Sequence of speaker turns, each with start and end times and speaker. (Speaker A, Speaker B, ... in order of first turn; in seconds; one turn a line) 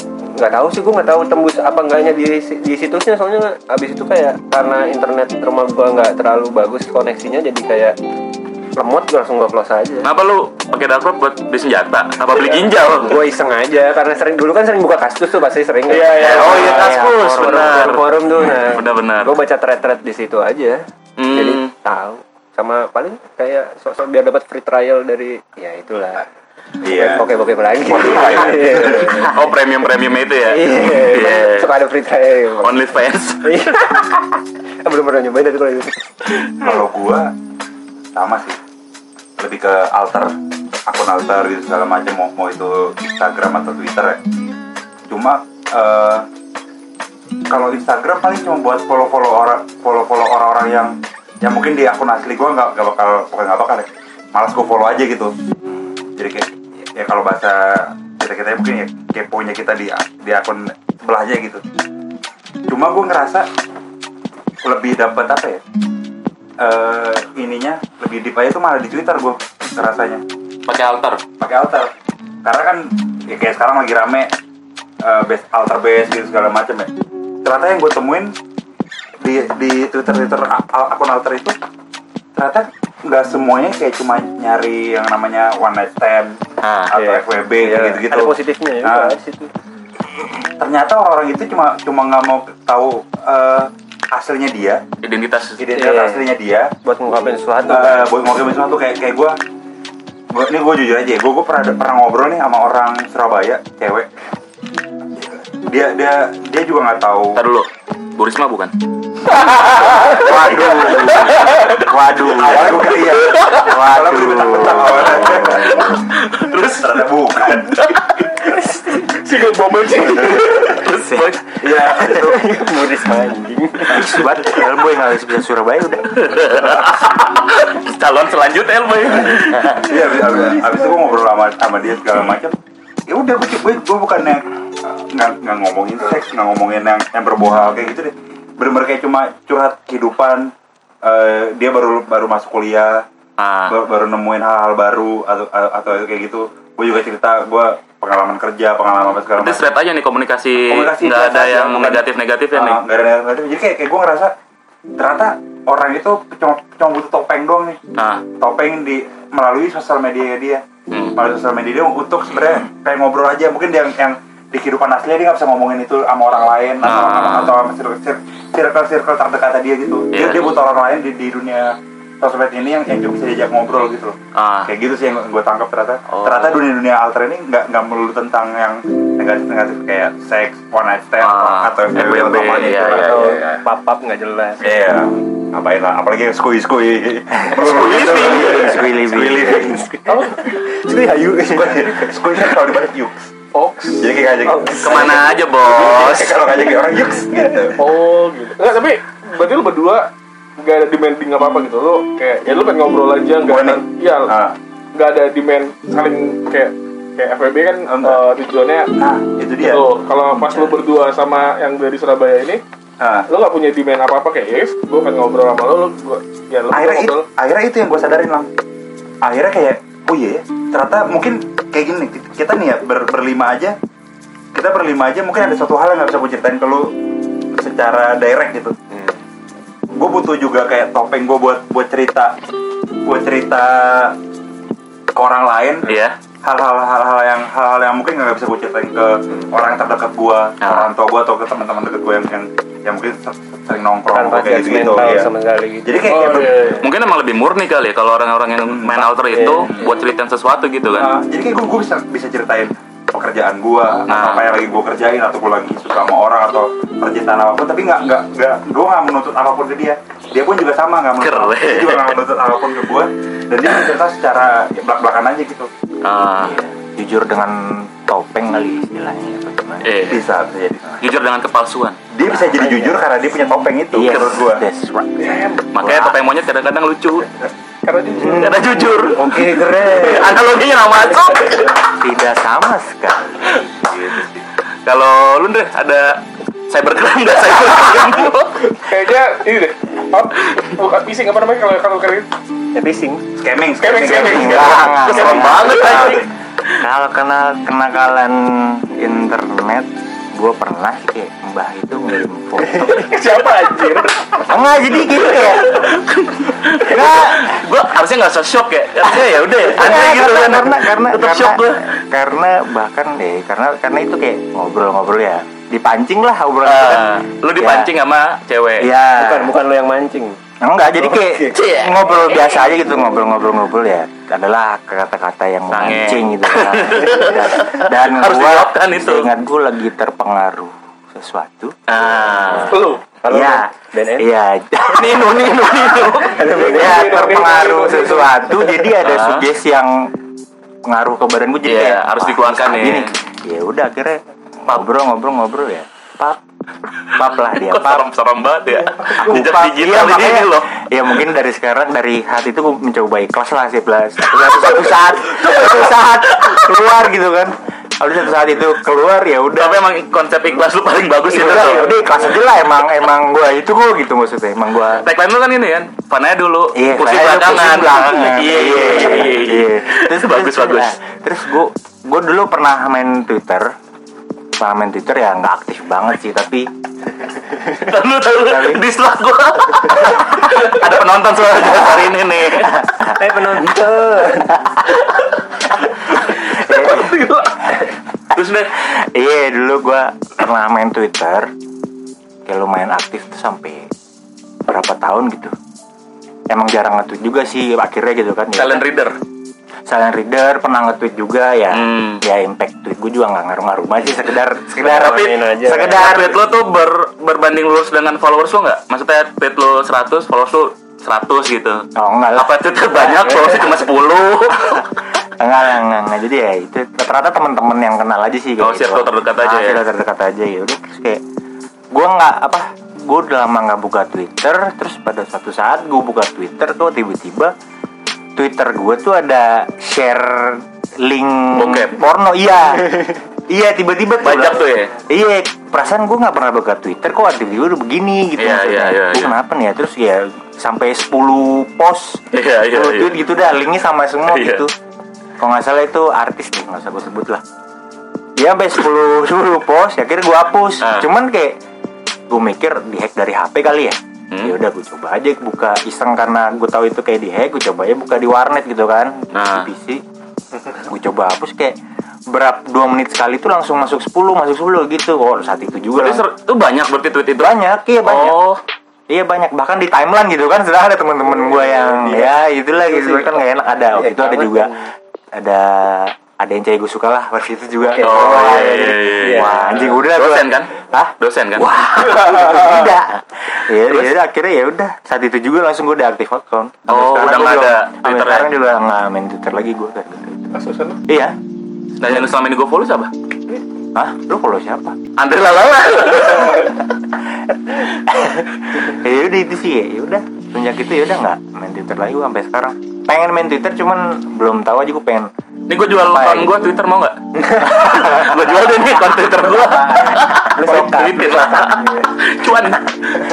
Speaker A: 0.3-8.0
Speaker A: 8.8-10.1
Speaker B: 10.0-13.2
Speaker A: 12.9-26.3
Speaker C: 15.9-16.7
Speaker B: 16.1-19.4
Speaker D: 16.3-18.2
Speaker B: 21.2-21.7
Speaker E: 26.8-29.3
Speaker A: 26.8-29.4
Speaker B: 29.2-31.7
Speaker A: 30.4-32.9
Speaker B: 32.6-33.6
Speaker A: 33.4-36.8
Speaker E: 36.6-37.3
Speaker E: 38.1-38.6
Speaker E: 39.4-44.2
Speaker E: 45.1-46.3
Speaker E: 47.5-55.3
Speaker E: 56.2-61.6
Speaker E: 62.7-63.5
Speaker E: 64.6-65.6
Speaker E: 66.6-70.2
Speaker B: 70.7-71.2
Speaker E: 71.4-71.9
Speaker E: 72.4-74.3
Speaker E: 75.0-76.9
Speaker E: 77.5-78.3
Speaker E: 79.2-81.6
Speaker E: 82.4-89.1
Speaker B: 86.6-86.9
Speaker A: 86.9-89.5
Speaker E: 90.6-94.8
Speaker B: 95.0-95.6
Speaker E: 95.6-96.7
Speaker A: 95.7-96.3
Speaker A: 96.8-98.1
Speaker E: 97.7-99.4
Speaker E: 100.3-104.1
Speaker E: 105.4-107.4
Speaker B: 107.4-108.7
Speaker C: 109.3-111.9
Speaker D: 110.0-116.0
Speaker E: 112.2-115.9
Speaker B: 115.3-117.0
Speaker E: 116.7-117.8
Speaker B: 117.7-118.3
Speaker A: 118.5-119.0
Speaker C: 119.0-120.8
Speaker B: 120.2-121.5
Speaker D: 121.1-121.4
Speaker E: 121.6-122.6
Speaker A: 122.0-124.2
Speaker D: 123.9-126.6
Speaker B: 126.2-129.9
Speaker E: 129.8-132.6
Speaker E: 133.1-143.1
Speaker B: 143.4-143.7
Speaker E: 143.7-149.6
Speaker B: 149.4-152.8
Speaker E: 150.7-154.3
Speaker E: 155.0-157.8
Speaker B: 157.9-158.2
Speaker E: 158.4-160.6
Speaker B: 160.9-161.2
Speaker E: 161.2-183.3
Speaker B: 166.8-167.5
Speaker B: 170.1-170.5
Speaker B: 174.3-174.7
Speaker B: 176.1-176.6
Speaker B: 181.2-183.6
Speaker A: 182.8-184.8
Speaker E: 184.6-190.0
Speaker D: 187.3-189.7
Speaker B: 187.6-188.8
Speaker A: 189.5-192.6
Speaker C: 190.1-190.5
Speaker E: 191.5-193.3
Speaker C: 193.5-194.1
Speaker E: 194.0-195.1
Speaker A: 194.4-196.7
Speaker B: 194.8-196.3
Speaker E: 195.6-197.8
Speaker C: 197.8-204.3
Speaker E: 203.4-204.6
Speaker C: 204.9-208.9
Speaker E: 207.9-208.2
Speaker E: 209.0-209.8
Speaker C: 209.6-212.6
Speaker E: 213.0-213.3
Speaker C: 213.3-217.3
Speaker E: 216.7-218.5
Speaker E: 219.2-223.8
Speaker E: 224.5-226.9
Speaker E: 227.6-228.8
Speaker E: 229.9-232.4
Speaker E: 233.1-234.2
Speaker E: 235.1-245.3
Speaker B: 235.9-236.2
Speaker B: 240.6-240.9
Speaker A: 244.1-246.8
Speaker E: 245.8-246.7
Speaker C: 246.0-246.9
Speaker B: 246.8-251.1
Speaker E: 248.7-249.1
Speaker A: 249.3-249.9
Speaker E: 250.9-265.7
Speaker B: 254.1-254.5
Speaker B: 261.2-262.2
Speaker B: 266.0-266.6
Speaker D: 266.4-270.1
Speaker B: 269.8-270.2
Speaker E: 270.1-271.0
Speaker B: 271.0-272.0
Speaker E: 272.1-274.6
Speaker A: 272.6-273.0
Speaker D: 273.9-276.2
Speaker C: 275.2-275.7
Speaker B: 275.7-277.3
Speaker C: 277.8-278.7
Speaker B: 278.3-281.9
Speaker A: 278.5-280.4
Speaker D: 282.0-283.5
Speaker E: 283.8-284.3
Speaker B: 284.9-288.7
Speaker C: 288.7-292.3
Speaker A: 292.7-293.3
Speaker E: 293.4-294.8
Speaker C: 293.8-296.2
Speaker D: 294.1-296.3
Speaker B: 294.7-296.3
Speaker D: 296.8-303.1
Speaker A: 302.7-303.0
Speaker C: 302.9-304.4
Speaker D: 304.4-305.8
Speaker B: 305.4-311.9
Speaker D: 306.8-307.6
Speaker D: 309.1-317.9
Speaker B: 316.6-318.9
Speaker D: 318.8-319.5
Speaker A: 319.2-320.4
Speaker D: 320.6-331.8
Speaker A: 321.0-321.6
Speaker B: 321.5-322.4
Speaker B: 325.7-329.3
Speaker B: 331.9-332.8
Speaker D: 332.4-335.6
Speaker C: 332.7-333.0
Speaker A: 333.2-334.3
Speaker B: 334.9-336.7
Speaker A: 336.1-337.6
Speaker C: 336.5-338.4
Speaker D: 336.6-340.1
Speaker B: 339.0-339.5
Speaker D: 340.9-346.4
Speaker B: 341.6-343.1
Speaker D: 347.1-348.1
Speaker B: 347.5-350.8
Speaker D: 349.0-359.8
Speaker B: 354.2-356.8
Speaker B: 359.6-362.0
Speaker D: 361.3-365.1
Speaker B: 365.0-370.9
Speaker D: 366.7-373.7
Speaker D: 374.6-376.7
Speaker B: 377.7-382.9
Speaker D: 378.4-378.8
Speaker A: 383.0-384.8
Speaker D: 386.4-387.5
Speaker C: 386.6-387.6
Speaker B: 388.3-388.8
Speaker D: 388.8-391.5
Speaker D: 392.5-393.9
Speaker D: 394.6-395.5
Speaker D: 396.5-398.8
Speaker B: 398.6-399.2
Speaker D: 399.9-406.4
Speaker B: 401.7-402.2
Speaker A: 404.8-406.2
Speaker B: 404.9-411.9
Speaker D: 411.9-413.4
Speaker B: 412.4-414.9
Speaker D: 415.4-421.2
Speaker B: 418.6-419.8
Speaker D: 421.9-427.5
Speaker D: 428.4-444.7
Speaker B: 431.5-432.0
Speaker B: 434.2-434.9
Speaker B: 438.4-439.4
Speaker B: 442.3-443.1
Speaker B: 444.3-444.6
Speaker D: 445.4-447.4
Speaker D: 448.4-451.6
Speaker B: 450.8-451.1
Speaker D: 452.3-460.0
Speaker B: 454.3-454.6
Speaker B: 459.3-459.7
Speaker D: 460.9-461.8
Speaker D: 462.3-466.2
Speaker B: 466.0-468.6
Speaker D: 467.4-468.4
Speaker D: 469.1-474.8
Speaker A: 471.4-474.9
Speaker D: 475.4-490.5
Speaker A: 477.8-480.0
Speaker B: 478.0-481.8
Speaker C: 482.0-482.9
Speaker B: 483.9-484.1
Speaker B: 486.9-488.5
Speaker C: 490.5-491.0
Speaker D: 491.1-491.4
Speaker B: 492.0-493.1
Speaker D: 493.9-495.0
Speaker B: 495.2-496.8
Speaker D: 498.1-505.3
Speaker B: 505.7-513.2
Speaker D: 506.0-506.5
Speaker D: 507.9-508.2
Speaker A: 509.5-512.1